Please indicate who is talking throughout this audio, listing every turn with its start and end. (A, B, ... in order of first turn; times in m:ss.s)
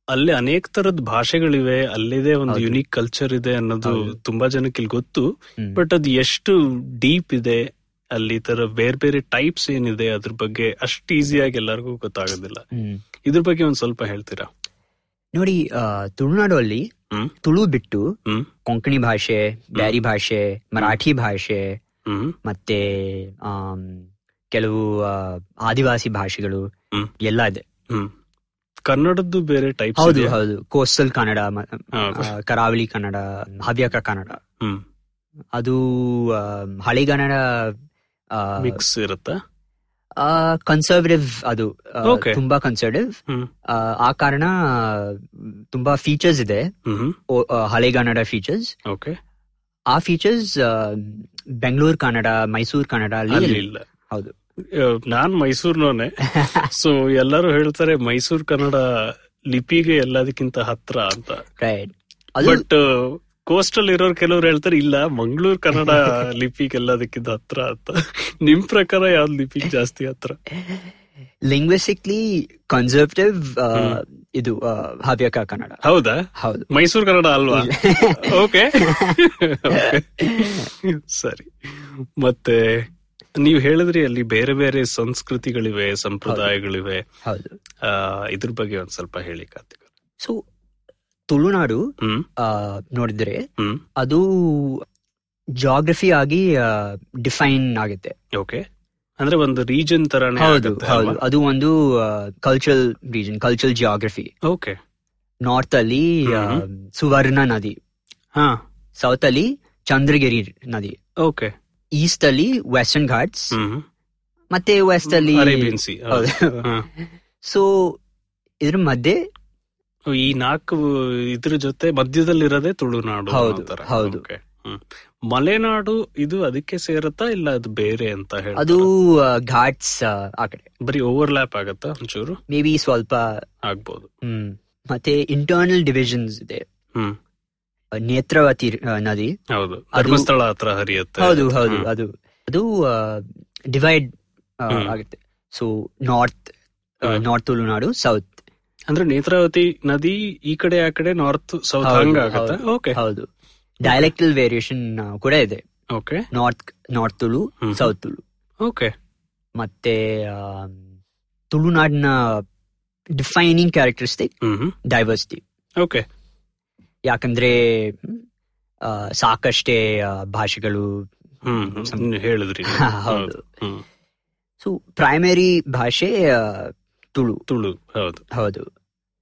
0:00.1-0:12.6 A
0:02.5-0:02.8 B
0:03.8-0:04.2 B
0:12.7-0:13.0 B
0:13.3-0:14.5 A
0:15.3-0:16.9 B
0:17.4-0:18.1 B
0:18.7-0:21.8 B
0:22.1-0:22.4 A
0:22.5-0:26.7 B
0:27.2-0:27.6 B
0:28.9-0:30.4 A
0:30.0-0:34.4 B
0:32.0-0:32.3 A
0:35.6-0:37.8 B
0:38.3-0:38.8 B
0:38.6-0:39.4 A
0:40.2-0:43.2 B
0:42.0-0:42.4 A
0:43.7-0:46.7 B
0:46.9-0:47.2 A
0:47.3-0:48.7 B
0:48.9-0:49.2 A
0:49.9-0:54.3 B
0:53.3-0:53.8 A
0:54.7-1:01.4 A
1:01.6-1:02.6 B
1:02.4-1:10.4 A
1:11.5-1:15.8 B
1:13.8-1:14.0 A
1:15.8-1:22.9 A
1:16.4-1:16.7 B
1:17.5-1:19.2 B
1:19.7-1:20.7 B
1:23.4-1:27.0 A
1:26.3-1:26.5 B
1:27.2-1:27.6 B
1:27.8-1:29.9 A
1:31.3-1:31.8 B
1:32.0-1:32.3 A
1:32.4-1:33.4 B
1:34.0-1:34.8 B
1:35.6-1:38.2 B
1:38.4-1:38.6 A
1:39.2-1:41.2 A
1:40.4-1:44.3 B
1:44.4-1:44.8 A
1:45.4-1:47.8 B
1:46.3-1:46.6 A
1:48.4-1:48.6 A
1:49.0-1:51.0 B
1:51.2-1:51.5 A
1:52.0-1:53.6 B
1:53.5-1:53.8 A
1:54.5-1:56.7 B
1:55.1-1:56.9 A
1:57.4-1:58.0 B
1:58.6-1:59.2 B
2:00.1-2:08.9 A
2:03.3-2:04.2 B
2:08.6-2:10.7 B
2:10.8-2:12.4 A
2:12.5-2:13.4 B
2:13.7-2:14.1 A
2:14.2-2:16.6 B
2:18.0-2:19.3 B
2:19.5-2:21.9 A
2:20.0-2:20.3 B
2:21.2-2:24.1 B
2:24.6-2:26.5 B
2:24.7-2:25.0 A
2:27.0-2:28.4 B
2:28.9-2:33.0 A
2:31.8-2:33.3 B
2:33.8-2:35.6 B
2:35.9-2:36.3 A
2:36.3-2:38.2 B
2:37.6-2:37.9 A
2:38.6-2:38.9 A
2:39.6-2:40.8 B
2:41.5-2:42.4 B
2:43.2-2:44.3 B
2:44.4-2:44.8 A
2:44.8-2:45.4 B
2:45.8-2:46.0 A
2:47.1-2:48.2 B
2:48.8-2:51.1 B
2:51.5-2:53.8 A
2:51.6-2:52.1 B
2:52.7-2:53.4 B
2:54.6-2:57.4 B
2:57.5-2:58.2 A
2:58.3-2:58.7 B